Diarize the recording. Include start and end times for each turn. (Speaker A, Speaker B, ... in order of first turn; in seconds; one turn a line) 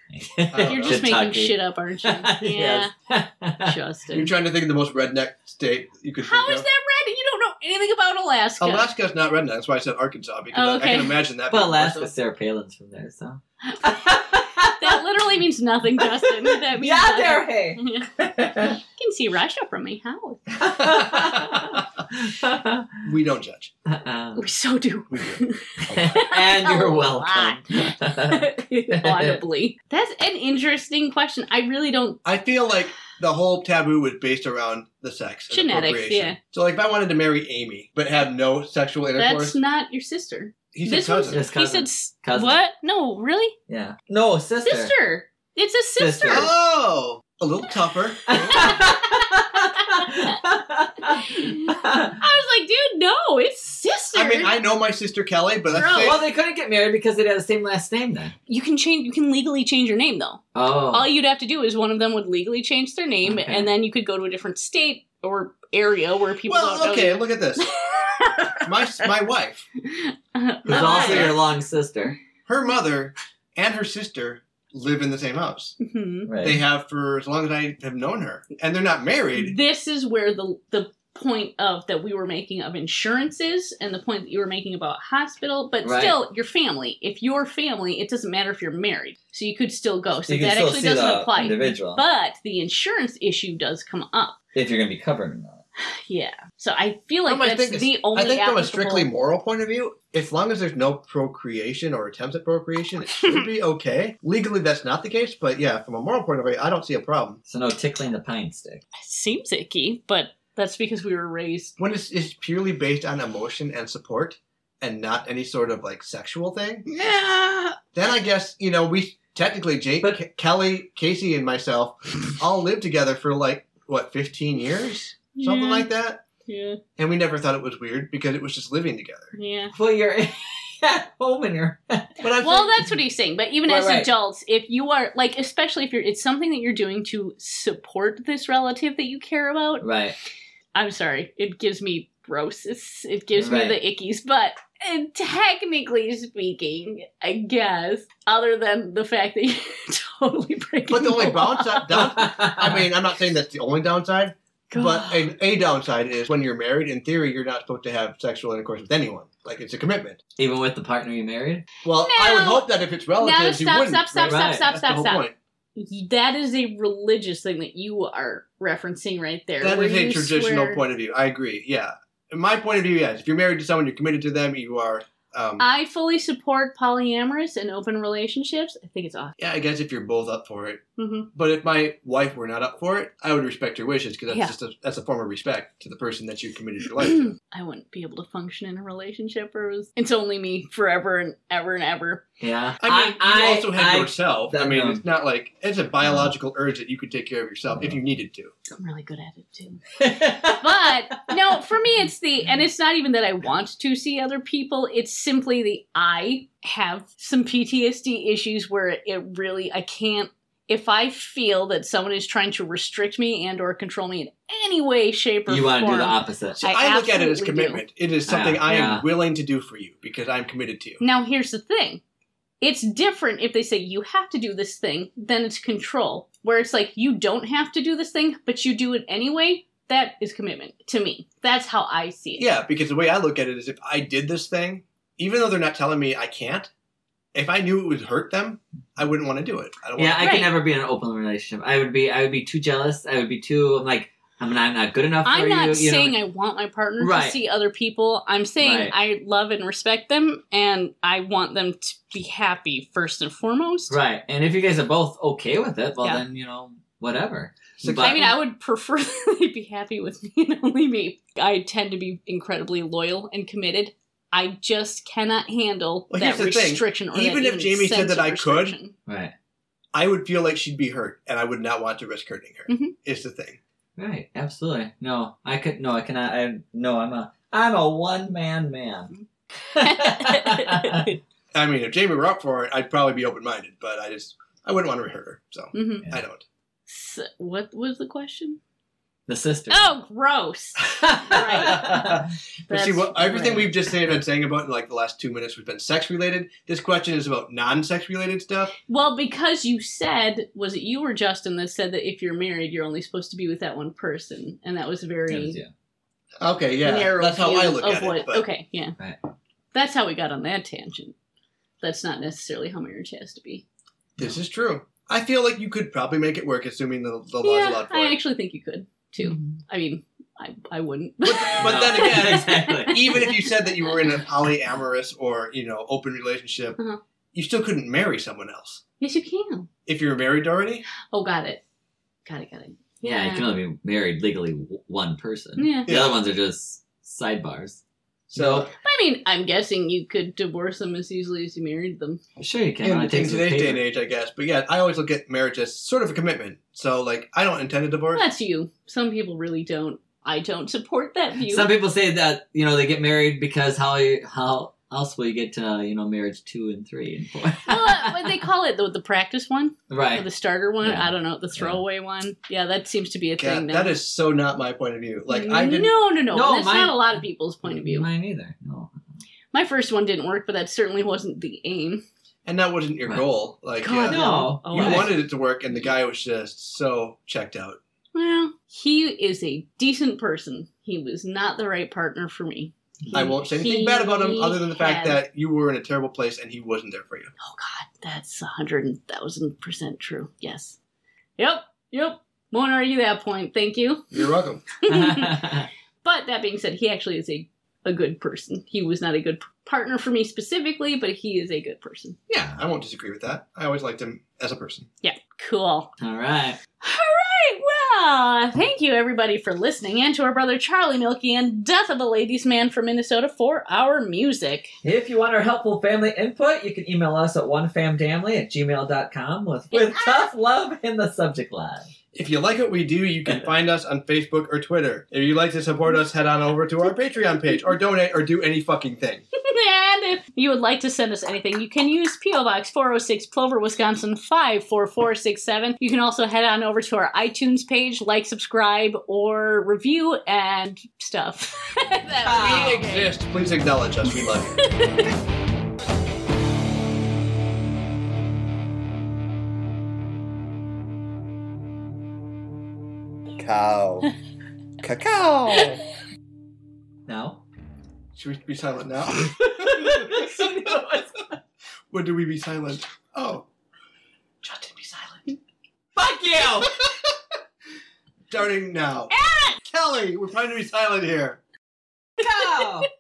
Speaker A: 0.1-3.8
Speaker B: 0.5-1.1
Speaker C: 0.6-2.9
Speaker C: 3.6-4.3
Speaker B: 4.1-6.7
Speaker C: 6.2-8.9
Speaker B: 8.6-12.1
Speaker C: 10.5-11.2
Speaker A: 11.5-15.0
Speaker C: 13.7-20.9
Speaker A: 16.0-18.8
Speaker A: 20.6-23.1
Speaker B: 20.8-21.8
Speaker B: 23.0-23.7
Speaker A: 23.9-24.5
Speaker C: 24.4-32.2
Speaker B: 25.1-26.2
Speaker A: 25.8-29.4
Speaker B: 32.2-39.6
Speaker C: 35.5-36.4
Speaker C: 39.2-43.6
Speaker B: 40.7-41.4
Speaker A: 41.3-42.6
Speaker A: 43.7-44.9
Speaker C: 44.6-46.5
Speaker A: 46.0-46.5
Speaker B: 46.3-48.8
Speaker A: 48.3-52.2
Speaker C: 48.4-50.4
Speaker C: 51.1-54.6
Speaker B: 54.1-56.2
Speaker C: 55.7-56.2
Speaker A: 55.8-58.4
Speaker C: 58.5-69.0
Speaker A: 60.5-61.1
Speaker A: 63.2-63.7
Speaker B: 66.5-67.7
Speaker B: 68.6-69.7
Speaker C: 69.9-71.4
Speaker B: 70.7-71.4
Speaker A: 70.7-72.2
Speaker B: 72.5-75.8
Speaker C: 75.8-76.3
Speaker A: 76.3-76.6
Speaker B: 76.4-79.6
Speaker C: 79.4-94.4
Speaker A: 85.8-86.2
Speaker A: 90.3-92.0
Speaker A: 94.5-95.6
Speaker C: 96.1-99.1
Speaker B: 97.3-107.4
Speaker A: 107.5-108.8
Speaker C: 109.0-111.8
Speaker B: 111.8-116.9
Speaker C: 116.9-117.8
Speaker B: 117.9-126.2
Speaker C: 125.3-125.9
Speaker C: 126.5-126.8
Speaker B: 127.0-129.3
Speaker C: 129.3-129.7
Speaker A: 129.7-132.2
Speaker B: 132.2-132.8
Speaker C: 132.4-139.8
Speaker A: 133.7-134.1
Speaker A: 139.8-140.2
Speaker C: 140.8-152.1
Speaker A: 143.3-143.8
Speaker B: 150.9-160.2
Speaker A: 152.0-152.9
Speaker C: 154.7-155.3
Speaker A: 160.4-161.7
Speaker B: 161.8-165.3
Speaker C: 162.0-162.7
Speaker C: 163.2-170.8
Speaker A: 164.2-164.7
Speaker B: 169.6-175.7
Speaker C: 175.6-179.3
Speaker B: 179.4-187.3
Speaker C: 181.0-181.3
Speaker C: 187.0-192.2
Speaker A: 192.4-195.0
Speaker B: 192.8-198.5
Speaker A: 196.0-196.3
Speaker C: 198.7-217.8
Speaker A: 200.0-201.2
Speaker A: 215.5-216.6
Speaker B: 216.6-221.0
Speaker A: 218.3-219.1
Speaker C: 221.0-222.0
Speaker C: 222.6-232.5
Speaker B: 232.4-236.7
Speaker B: 237.3-240.4
Speaker A: 240.0-246.2
Speaker C: 240.2-240.5
Speaker C: 245.2-254.0
Speaker A: 247.0-247.4
Speaker A: 248.6-248.9
Speaker A: 253.9-258.3
Speaker B: 257.8-258.4
Speaker C: 258.0-268.9
Speaker B: 266.1-268.8
Speaker A: 269.1-269.3
Speaker B: 269.9-273.6
Speaker C: 272.7-272.9
Speaker A: 274.0-279.1
Speaker C: 279.1-281.2
Speaker A: 279.7-281.1
Speaker B: 281.5-286.4
Speaker C: 285.7-286.1
Speaker C: 286.9-288.6
Speaker A: 289.3-289.9
Speaker C: 289.7-293.8
Speaker A: 290.9-292.2
Speaker B: 291.6-298.7
Speaker C: 298.9-305.6
Speaker A: 305.3-305.7
Speaker B: 306.4-308.4
Speaker C: 306.8-308.9
Speaker C: 309.7-311.2
Speaker C: 311.8-313.6
Speaker B: 314.2-318.2
Speaker C: 317.4-323.9
Speaker B: 321.2-326.8
Speaker A: 321.6-323.2
Speaker B: 327.3-328.8
Speaker C: 329.0-329.7
Speaker B: 329.9-330.9
Speaker C: 331.1-331.6
Speaker C: 332.2-333.5
Speaker A: 333.0-338.7
Speaker C: 335.6-335.9
Speaker B: 335.9-336.2
Speaker B: 338.3-338.7
Speaker C: 338.8-342.2
Speaker A: 342.4-343.8
Speaker B: 342.8-348.2
Speaker C: 348.1-351.7
Speaker A: 351.5-358.4
Speaker C: 357.7-364.0
Speaker A: 359.9-360.3
Speaker A: 360.8-361.8
Speaker B: 363.4-366.0
Speaker C: 365.3-368.1
Speaker A: 366.3-369.0
Speaker C: 369.5-372.0
Speaker B: 372.5-377.8
Speaker C: 373.8-375.1
Speaker A: 374.0-375.2
Speaker C: 378.1-385.2
Speaker B: 383.1-387.3
Speaker C: 387.4-390.8
Speaker C: 391.4-394.1
Speaker B: 394.1-394.6
Speaker C: 394.8-402.2
Speaker A: 394.9-395.7
Speaker B: 402.3-404.9
Speaker C: 405.0-405.9
Speaker A: 406.0-406.6
Speaker C: 406.8-414.7
Speaker A: 414.8-421.9
Speaker C: 419.7-420.3
Speaker B: 422.1-429.2
Speaker C: 429.4-443.1
Speaker A: 442.2-442.8
Speaker B: 442.4-444.6
Speaker C: 444.1-445.1
Speaker B: 453.4-454.1
Speaker B: 454.8-455.8
Speaker A: 457.1-457.4
Speaker B: 458.1-460.8
Speaker A: 459.2-461.4
Speaker B: 461.9-463.5
Speaker B: 464.4-465.4
Speaker A: 465.9-466.8
Speaker B: 466.6-467.2
Speaker B: 468.3-471.4
Speaker C: 469.1-469.6
Speaker A: 472.2-472.9